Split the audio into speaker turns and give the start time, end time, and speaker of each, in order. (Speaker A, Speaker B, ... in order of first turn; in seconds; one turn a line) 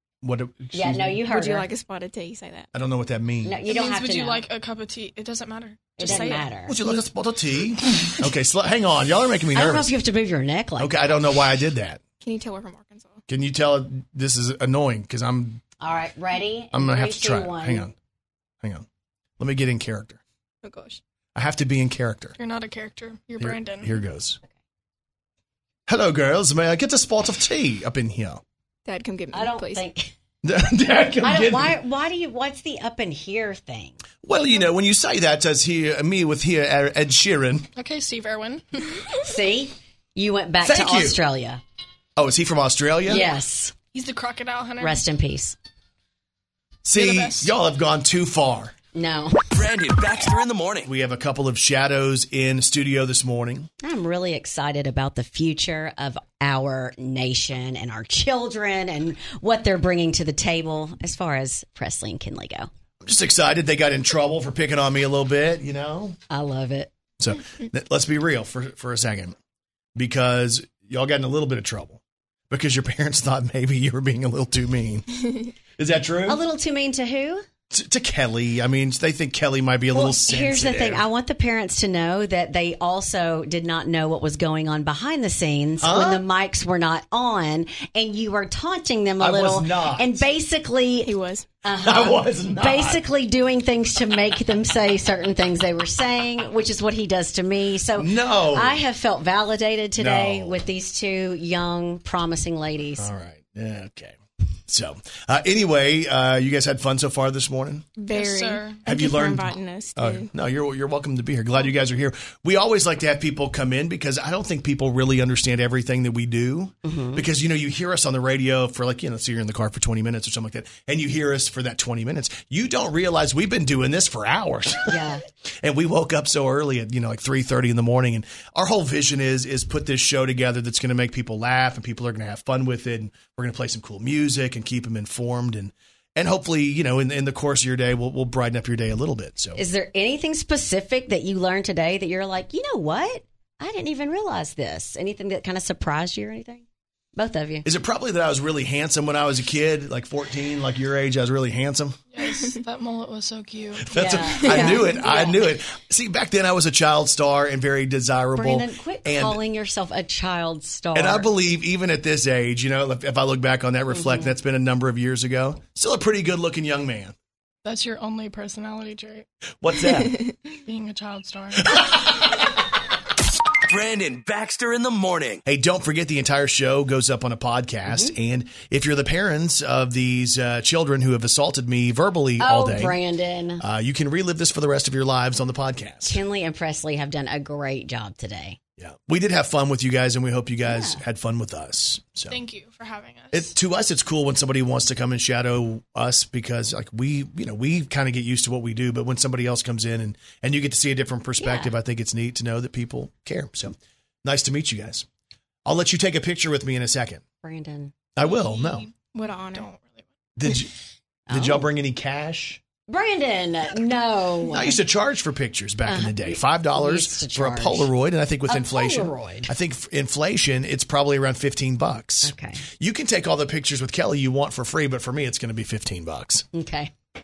Speaker A: 0.2-1.2
Speaker B: 0.7-1.7
Speaker C: 1.2-2.7
Speaker A: 2.7-3.6
Speaker B: 3.4-4.4
Speaker D: 3.6-6.5
Speaker B: 6.0-6.8
Speaker A: 6.6-9.9
Speaker B: 9.5-10.9
Speaker A: 10.8-12.0
Speaker C: 12.2-13.2
Speaker A: 13.3-15.6
Speaker B: 15.8-17.9
Speaker A: 16.7-17.9
Speaker A: 19.4-20.2
Speaker C: 20.6-21.0
Speaker A: 21.3-22.4
Speaker D: 22.4-24.0
Speaker A: 23.4-24.4
Speaker A: 25.9-28.4
Speaker C: 28.9-29.9
Speaker B: 29.3-30.1
Speaker A: 30.4-31.8
Speaker B: 31.2-34.0
Speaker A: 34.2-37.7
Speaker D: 37.8-38.9
Speaker B: 39.2-41.6
Speaker A: 40.6-41.2
Speaker A: 42.1-43.2
Speaker B: 43.0-43.7
Speaker D: 43.9-45.0
Speaker B: 44.8-45.6
Speaker A: 46.8-48.7
Speaker D: 46.9-47.5
Speaker B: 48.9-49.4
Speaker E: 49.5-50.9
Speaker A: 50.8-53.7
Speaker B: 53.8-62.7
Speaker A: 63.0-66.2
Speaker B: 66.3-66.9
Speaker A: 67.2-69.3
Speaker A: 70.0-75.2
Speaker A: 75.8-76.4
Speaker B: 76.3-77.4
Speaker A: 77.7-81.0
Speaker B: 79.9-103.1
Speaker A: 85.8-86.2
Speaker A: 89.2-90.2
Speaker C: 91.0-91.5
Speaker A: 91.8-93.0
Speaker A: 98.0-98.8
Speaker A: 100.0-100.6
Speaker A: 103.0-104.2
Speaker A: 104.7-107.9
Speaker C: 108.0-110.3
Speaker D: 108.1-108.8
Speaker A: 108.8-125.0
Speaker B: 116.8-117.2
Speaker B: 124.9-125.2
Speaker A: 125.6-139.6
Speaker B: 139.6-146.6
Speaker B: 147.2-147.7
Speaker A: 147.6-152.0
Speaker D: 152.1-154.7
Speaker A: 153.8-159.4
Speaker B: 153.9-155.4
Speaker B: 158.3-161.3
Speaker A: 160.9-167.1
Speaker B: 163.9-164.3
Speaker D: 167.6-169.2
Speaker A: 169.6-170.2
Speaker C: 169.8-170.4
Speaker D: 170.7-172.1
Speaker E: 173.7-175.4
Speaker A: 175.4-183.0
Speaker B: 177.9-178.1
Speaker B: 182.4-183.6
Speaker A: 183.6-186.2
Speaker B: 186.1-188.6
Speaker A: 188.8-192.4
Speaker B: 190.6-191.0
Speaker D: 192.3-193.5
Speaker A: 193.3-205.1
Speaker B: 201.4-201.7
Speaker A: 205.6-207.2
Speaker B: 207.4-207.9
Speaker A: 208.2-208.9
Speaker D: 208.2-210.0
Speaker C: 209.1-209.7
Speaker A: 210.4-210.7
Speaker B: 211.3-211.7
Speaker A: 211.3-212.6
Speaker B: 212.9-214.8
Speaker A: 214.5-226.4
Speaker B: 215.8-217.9
Speaker B: 218.5-219.5
Speaker B: 222.2-222.6
Speaker B: 226.5-226.9